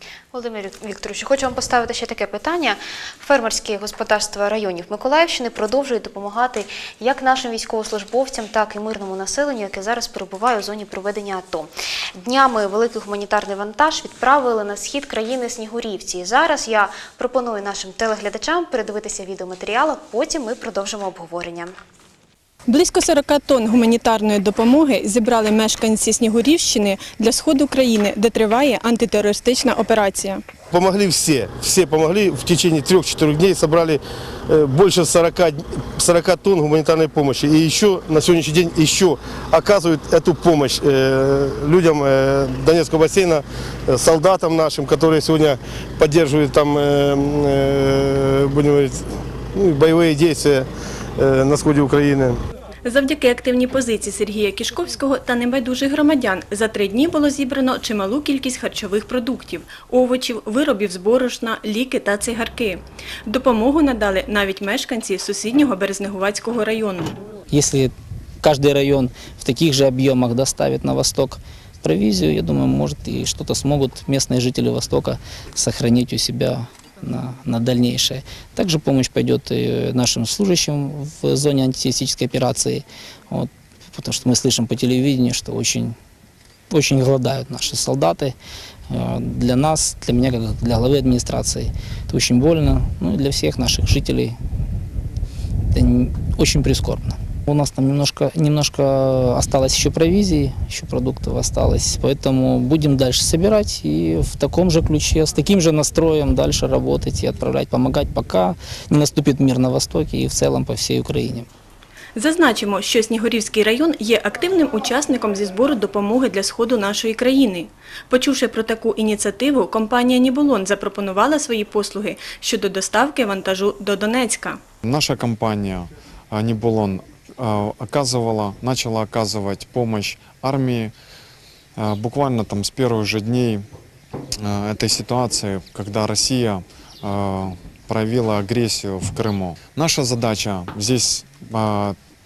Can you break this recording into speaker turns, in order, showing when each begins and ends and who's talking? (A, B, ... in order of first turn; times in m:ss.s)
0:00.3-0:21.7 A
0:22.7-0:30.4 B
0:30.7-0:52.4 C
0:52.8-1:07.2 B
1:07.5-1:26.0 D
1:26.7-1:28.3 D
1:28.9-1:34.4 D
1:35.7-1:51.5 D
1:52.2-2:04.6 B
2:04.8-2:10.9 E
2:11.8-2:13.7 E
2:14.4-2:22.0 E